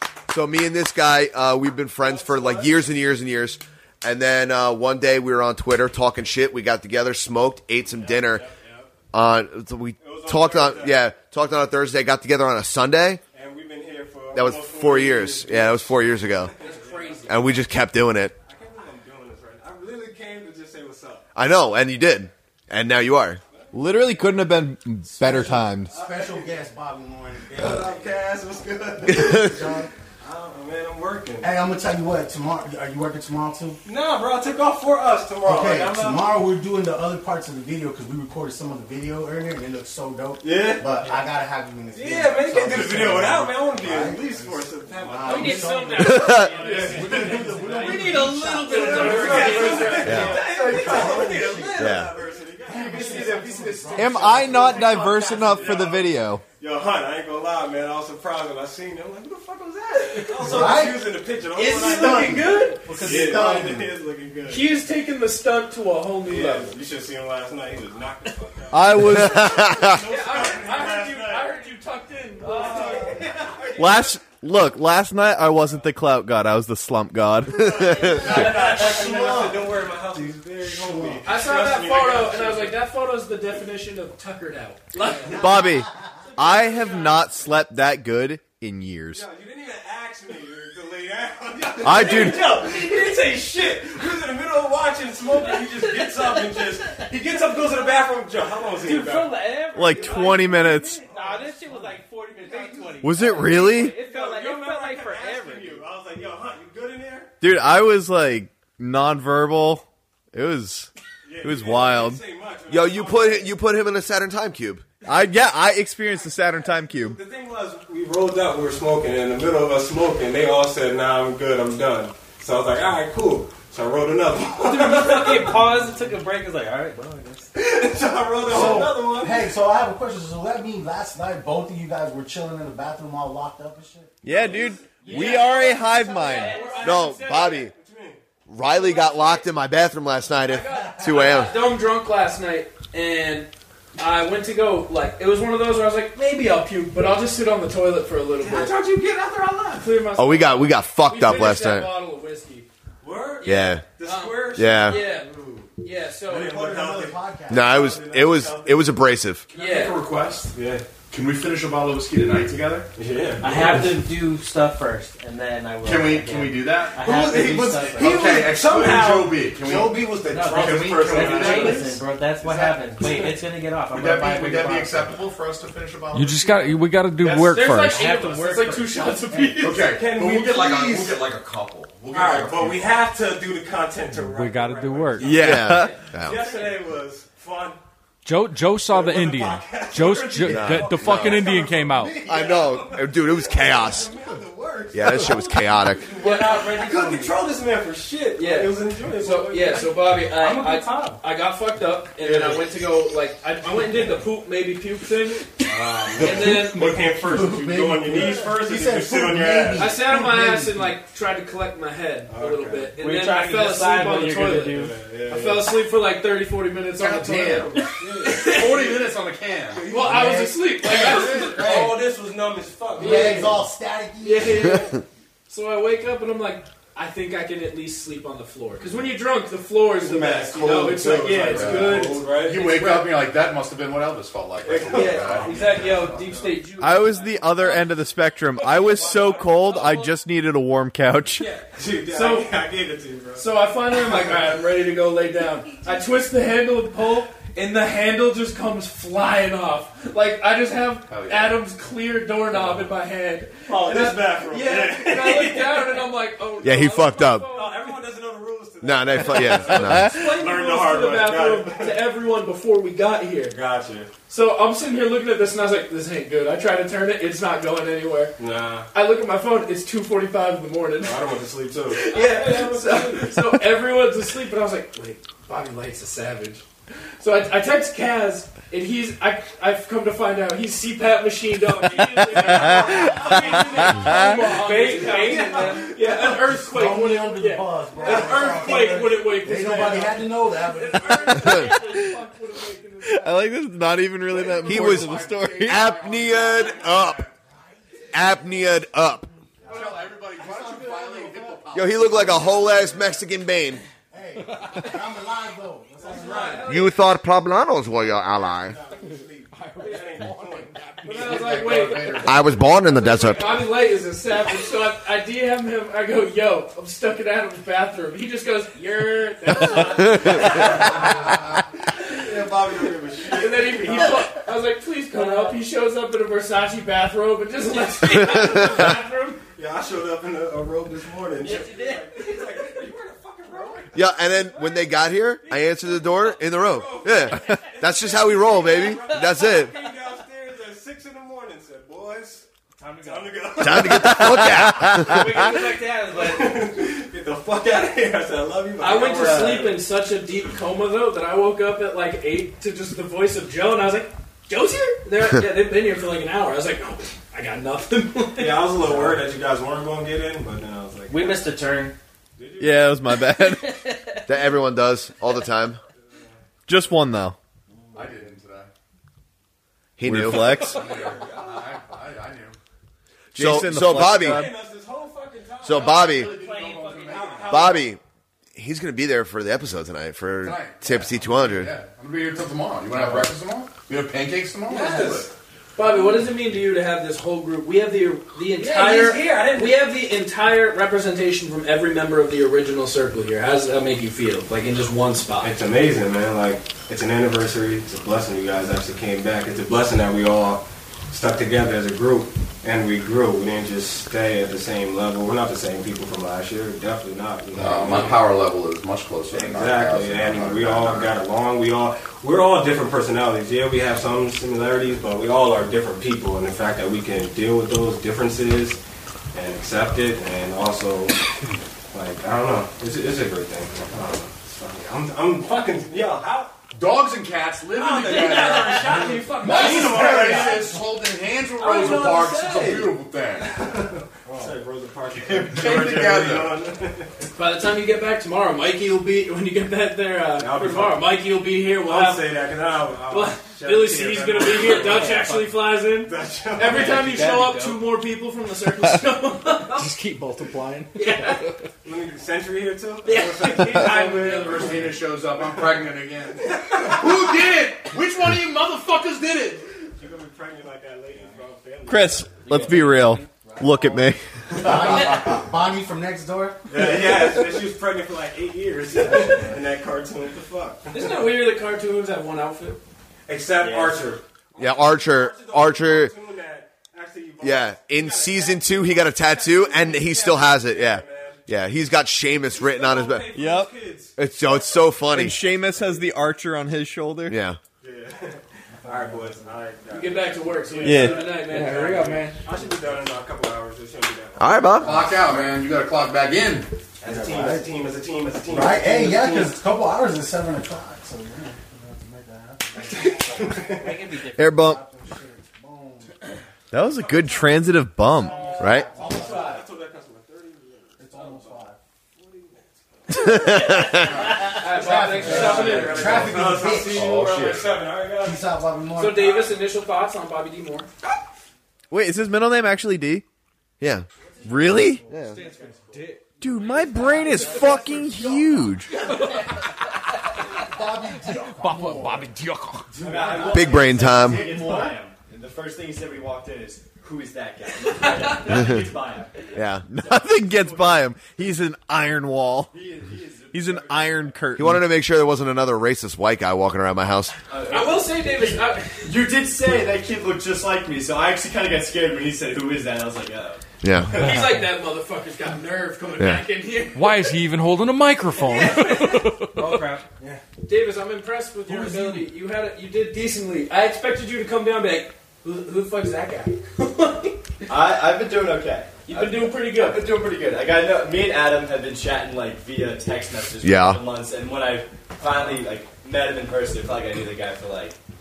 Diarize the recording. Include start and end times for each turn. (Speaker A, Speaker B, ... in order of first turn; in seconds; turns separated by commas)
Speaker A: 0.3-8.5, Speaker B: 2.0-3.0, Speaker B: 7.9-8.9, Speaker A: 9.1-13.2, Speaker B: 10.0-11.1, Speaker B: 13.3-17.6, Speaker A: 14.3-16.5, Speaker C: 16.6-17.6, Speaker A: 17.3-18.4, Speaker B: 18.4-21.3, Speaker A: 21.4-23.4, Speaker B: 23.6-23.8, Speaker D: 23.7-25.9, Speaker E: 25.2-28.2, Speaker B: 25.9-26.6, Speaker B: 27.6-29.6, Speaker E: 29.1-29.9, Speaker A: 29.1-29.6, Speaker B: 30.2-31.5, Speaker E: 31.4-33.8, Speaker B: 33.9-36.3, Speaker E: 35.4-52.0, Speaker B: 40.4-40.9, Speaker B: 41.9-64.8, Speaker C: 45.2-50.8, Speaker A: 46.0-46.6, Speaker A: 50.0-50.4, Speaker A: 51.8-52.1, Speaker E: 52.6-55.7, Speaker C: 53.0-53.4, Speaker D: 54.0-56.4, Speaker C: 54.2-55.8, Speaker C: 60.1-60.8, Speaker E: 60.4-64.0, Speaker C: 61.5-63.5, Speaker C: 64.5-66.8, Speaker B: 66.2-71.6, Speaker D: 68.7-69.7, Speaker A: 69.0-70.0, Speaker C: 69.9-73.1, Speaker B: 72.4-74.2, Speaker E: 72.5-73.2, Speaker D: 73.8-78.0, Speaker B: 77.5-82.8, Speaker A: 77.6-78.5, Speaker E: 77.9-81.3, Speaker C: 81.3-85.6, Speaker B: 85.0-85.9, Speaker D: 85.3-89.3, Speaker B: 86.4-87.3, Speaker B: 89.1-101.9, Speaker D: 91.8-92.6, Speaker F: 95.4-96.1, Speaker F: 98.8-105.8, Speaker D: 99.7-101.0, Speaker B: 102.5-107.3, Speaker D: 103.0-104.0, Speaker D: 107.4-110.9, Speaker B: 111.2-113.6, Speaker D: 111.4-112.2, Speaker A: 112.7-114.8, Speaker D: 115.0-117.2, Speaker B: 117.0-125.8, Speaker F: 124.5-127.5, Speaker B: 127.5-129.5, Speaker E: 128.4-134.2, Speaker D: 134.2-136.6, Speaker B: 134.3-138.2, Speaker F: 135.0-136.8, Speaker C: 135.1-135.5, Speaker C: 136.3-137.7, Speaker A: 136.8-137.7, Speaker A: 138.5-141.6, Speaker C: 138.8-139.3, Speaker B: 138.8-139.4, Speaker C: 140.4-148.8, Speaker B: 148.4-150.0, Speaker C: 149.8-152.7, Speaker A: 150.2-151.9, Speaker B: 153.0-155.6, Speaker C: 153.4-155.3, Speaker A: 153.4-153.9, Speaker A: 154.5-155.0, Speaker C: 155.8-156.6, Speaker B: 156.3-159.0, Speaker E: 156.3-158.2, Speaker A: 157.5-159.5, Speaker C: 159.5-160.0, Speaker G: 159.6-160.5, Speaker B: 160.5-160.9, Speaker G: 161.1-162.9, Speaker B: 162.9-164.0, Speaker F: 163.4-168.4, Speaker G: 165.8-173.0, Speaker B: 167.1-172.0, Speaker F: 170.2-175.2, Speaker B: 173.0-173.3, Speaker G: 173.9-176.8, Speaker H: 176.1-178.1, Speaker C: 177.2-179.9, Speaker F: 177.5-179.3, Speaker G: 179.6-182.9, Speaker B: 179.8-181.2, Speaker B: 182.1-187.8, Speaker H: 184.1-185.4, Speaker D: 185.2-185.9, Speaker A: 185.2-186.6, Speaker H: 188.2-192.2, Speaker B: 188.9-199.9, Speaker A: 190.4-191.4, Speaker A: 192.2-194.2, Speaker A: 194.9-196.2, Speaker C: 196.2-197.4, Speaker C: 198.4-206.9, Speaker F: 200.4-201.2, Speaker B: 202.2-202.7, Speaker B: 203.7-204.0, Speaker G: 205.7-206.8, Speaker B: 206.1-210.0, Speaker E: 207.0-210.9, Speaker C: 209.8-218.9, Speaker B: 212.3-212.9, Speaker F: 213.0-215.0, Speaker B: 214.7-215.7, Speaker G: 217.0-219.8, Speaker B: 218.0-219.1, Speaker B: 219.7-223.6, Speaker C: 219.9-221.9, Speaker E: 220.0-220.9, Speaker G: 221.2-221.6, Speaker E: 222.9-224.7, Speaker C: 223.0-223.6, Speaker C: 224.2-224.9, Speaker A: 224.7-225.0, Speaker C: 225.5-233.1, Speaker E: 229.9-231.9, Speaker G: 230.7-236.3, Speaker B: 231.1-233.0, Speaker B: 234.6-236.6, Speaker C: 234.9-238.0, Speaker D: 236.8-241.5, Speaker C: 238.6-240.2, Speaker B: 238.6-239.6, Speaker B: 241.4-243.5, Speaker C: 241.4-242.6, Speaker C: 243.4-258.0, Speaker G: 251.1-251.6, Speaker G: 252.6-252.9, Speaker B: 253.7-256.1, Speaker A: 256.6-257.5, Speaker B: 257.5-262.1, Speaker A: 258.8-260.2, Speaker C: 259.2-263.6, Speaker D: 259.6-260.2, Speaker B: 263.5-264.1, Speaker C: 264.3-268.3, Speaker B: 268.4-268.9, Speaker C: 268.9-271.3, Speaker B: 271.0-273.6, Speaker C: 272.0-276.6, Speaker C: 277.2-293.5, Speaker D: 282.2-283.3, Speaker B: 282.4-286.5, Speaker D: 284.0-284.4, Speaker E: 285.5-291.7, Speaker B: 288.0-290.0, Speaker D: 291.7-292.1, Speaker D: 293.0-296.0, Speaker G: 294.3-297.3, Speaker A: 294.6-297.3, Speaker E: 297.4-298.4, Speaker A: 298.1-299.3, Speaker E: 299.6-303.3, Speaker G: 299.7-302.9, Speaker A: 301.7-303.8, Speaker E: 304.1-306.7, Speaker B: 306.0-306.9, Speaker C: 306.0-307.1, Speaker A: 306.6-308.8, Speaker B: 308.1-310.9, Speaker H: 309.5-311.6, Speaker C: 311.0-312.4, Speaker G: 311.1-313.1, Speaker A: 312.2-313.7, Speaker B: 312.9-313.3, Speaker C: 313.1-321.2, Speaker A: 319.6-320.9, Speaker G: 320.9-321.7, Speaker B: 322.0-324.3, Speaker C: 323.3-329.4, Speaker F: 325.1-325.6, Speaker A: 328.4-328.9, Speaker B: 329.6-342.5, Speaker C: 331.4-331.7, Speaker A: 333.9-339.8, Speaker F: 342.8-346.7, Speaker B: 343.0-344.8, Speaker A: 343.6-345.6, Speaker B: 345.3-349.8, Speaker C: 348.8-358.7, Speaker F: 349.2-349.6, Speaker B: 358.4-361.4, Speaker F: 361.1-362.0, Speaker B: 362.4-363.0, Speaker D: 362.6-363.8, Speaker F: 363.4-364.1, Speaker A: 364.3-365.8, Speaker B: 366.1-366.4, Speaker D: 366.7-367.4, Speaker G: 367.9-368.7, Speaker A: 370.0-370.7, Speaker D: 370.0-370.9, Speaker G: 370.6-372.6, Speaker B: 370.6-371.5, Speaker A: 373.3-374.5, Speaker D: 373.3-374.6, Speaker B: 373.8-378.0, Speaker A: 375.6-376.4, Speaker G: 375.7-377.8, Speaker F: 376.3-377.4, Speaker A: 377.5-378.0, Speaker A: 378.6-381.8, Speaker G: 380.4-385.3, Speaker B: 384.7-385.3, Speaker C: 384.8-385.2, Speaker C: 385.8-395.6, Speaker B: 388.6-389.9, Speaker B: 395.4-408.2, Speaker G: 407.5-411.1, Speaker B: 409.3-418.8, Speaker B: 419.3-421.2, Speaker B: 421.9-426.5, Speaker G: 426.7-433.6, Speaker B: 427.8-430.8, Speaker C: 428.0-430.4, Speaker E: 429.8-430.8, Speaker B: 431.6-437.1, Speaker E: 434.2-434.6, Speaker G: 435.4-436.6, Speaker C: 437.3-442.3, Speaker B: 440.4-447.3, Speaker C: 443.1-449.9, Speaker F: 444.7-445.4, Speaker F: 447.0-447.8, Speaker H: 449.7-451.6, Speaker C: 451.0-451.5, Speaker B: 451.8-455.9, Speaker C: 453.0-454.9, Speaker G: 453.8-459.7, Speaker B: 456.4-457.4, Speaker B: 460.0-463.1, Speaker D: 461.9-464.2, Speaker F: 462.5-463.2, Speaker E: 464.5-467.3, Speaker B: 464.6-465.2, Speaker B: 466.7-471.4, Speaker E: 469.1-469.4, Speaker C: 470.9-472.8, Speaker B: 473.3-481.4, Speaker I: 473.6-474.1, Speaker A: 474.6-476.1, Speaker A: 477.4-483.4, Speaker B: 482.4-484.9, Speaker D: 483.3-483.7, Speaker A: 484.2-485.5, Speaker D: 485.1-487.4, Speaker B: 485.5-485.8, Speaker A: 487.3-487.6, Speaker B: 487.8-495.5, Speaker E: 488.8-489.5, Speaker C: 489.9-492.3, Speaker D: 490.8-491.3, Speaker H: 491.5-492.4, Speaker E: 492.5-493.1, Speaker A: 494.4-495.2, Speaker G: 494.8-496.7, Speaker B: 497.0-499.6, Speaker E: 497.0-497.7, Speaker E: 498.5-506.2, Speaker B: 502.8-504.0, Speaker F: 503.7-504.6, Speaker D: 504.3-504.8, Speaker D: 506.7-508.5, Speaker B: 507.0-507.6, Speaker B: 508.1-513.5, Speaker E: 508.2-509.7, Speaker C: 508.3-508.6, Speaker A: 508.6-508.9, Speaker E: 511.0-511.8, Speaker A: 513.1-514.3, Speaker C: 514.3-516.4, Speaker E: 514.4-517.3, Speaker B: 514.9-518.5, Speaker I: 515.3-516.1, Speaker G: 515.3-517.6, Speaker C: 517.1-517.6, Speaker E: 518.1-519.5, Speaker C: 519.0-520.9, Speaker D: 521.9-523.2, Speaker A: 523.8-524.1, Speaker E: 524.4-526.1, Speaker D: 524.5-525.1, Speaker A: 525.0-525.5, Speaker H: 525.1-526.2, Speaker D: 526.4-528.9, Speaker E: 527.0-528.7, Speaker C: 527.3-527.6, Speaker E: 530.6-532.3, Speaker G: 531.3-532.8, Speaker H: 531.8-532.9, Speaker E: 532.9-535.0, Speaker I: 533.0-541.1, Speaker A: 533.4-534.5, Speaker C: 537.9-538.6, Speaker A: 538.5-538.8, Speaker A: 539.5-539.9, Speaker D: 539.9-542.8, Speaker I: 542.7-544.5, Speaker D: 543.5-544.9, Speaker A: 544.5-547.4, Speaker I: 547.5-553.6, Speaker C: 547.7-549.1, Speaker A: 553.8-554.2, Speaker C: 554.1-557.4, Speaker I: 554.1-554.4, Speaker A: 556.2-556.5, Speaker H: 557.0-559.7, Speaker C: 558.4-559.4, Speaker F: 559.5-560.1, Speaker C: 560.6-567.5, Speaker H: 561.7-562.2, Speaker I: 567.7-578.0, Speaker C: 569.1-570.1, Speaker A: 573.6-574.0